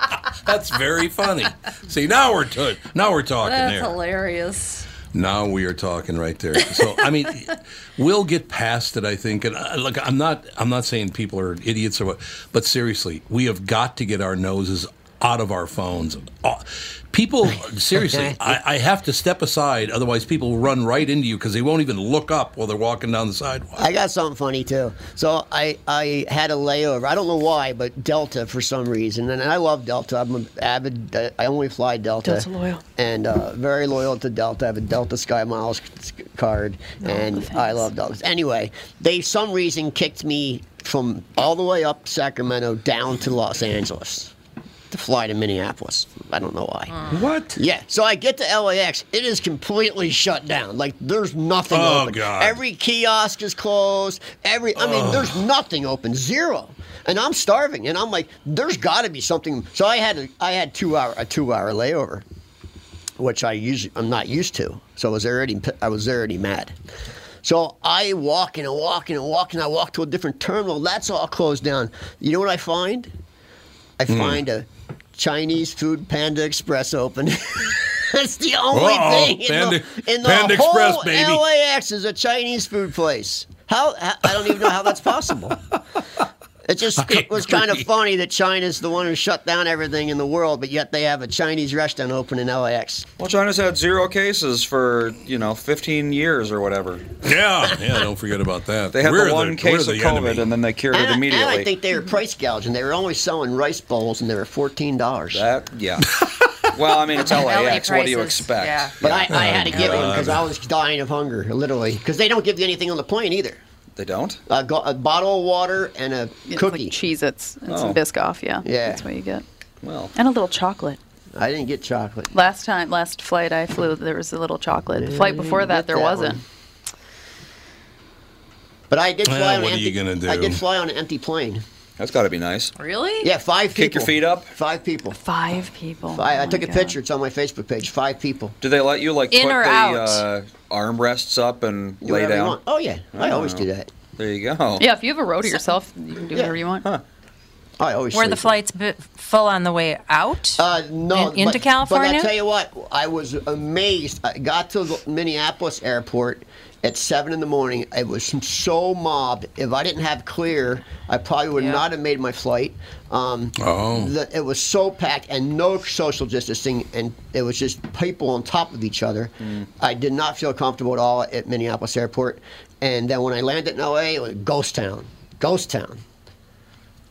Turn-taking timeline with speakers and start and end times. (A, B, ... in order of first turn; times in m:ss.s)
0:00.4-0:03.9 A
0:03.4-0:04.8 B
0:05.1-0:23.8 A
0:18.0-0:18.5 C
0:23.8-0:44.3 C
0:32.2-0:32.8 B
0:37.0-0:37.9 B
0:44.9-0:47.0 C
0:47.1-0:47.6 A
0:47.5-1:02.2 C
0:51.7-0:52.6 A
0:54.8-0:55.4 A
1:03.2-1:06.7 C
1:07.4-1:13.1 C
1:14.0-1:25.6 C
1:14.1-1:14.4 A
1:18.7-1:21.4 A
1:26.6-1:33.1 C
1:27.0-1:27.8 A
1:33.2-1:37.0 D
1:37.2-1:40.5 A
1:38.9-1:41.7 D
1:40.9-1:45.4 C
1:45.3-1:46.2 D
1:46.7-1:48.9 D
1:47.2-1:50.1 E
1:49.0-1:53.6 C
1:49.3-1:50.5 A
1:54.0-1:54.4 D
1:54.5-1:57.0 C
1:56.5-1:59.4 B
1:57.7-1:58.0 D
1:58.6-1:59.0 C
1:59.8-2:00.1 D
2:00.1-2:01.0 B
2:01.4-2:02.3 C
2:02.3-2:06.4 B
2:04.9-2:06.4 C
2:08.9-2:11.6 C
2:09.2-2:10.6 A
2:12.0-2:12.7 D
2:12.8-2:13.2 B
2:13.2-2:15.2 C
2:13.7-2:14.5 D
2:15.2-2:17.0 B
2:16.1-2:18.6 C
2:18.6-2:22.6 D
2:19.3-2:20.2 E
2:22.0-2:23.9 C
2:23.1-2:23.6 D
2:24.2-2:24.8 D
2:24.8-2:26.8 B
2:27.8-2:28.6 C
2:28.1-2:30.6 E
2:30.6-2:56.0 C
2:31.1-2:32.3 E
2:41.6-2:41.8 E
2:43.6-2:44.1 A
2:49.4-2:49.7 D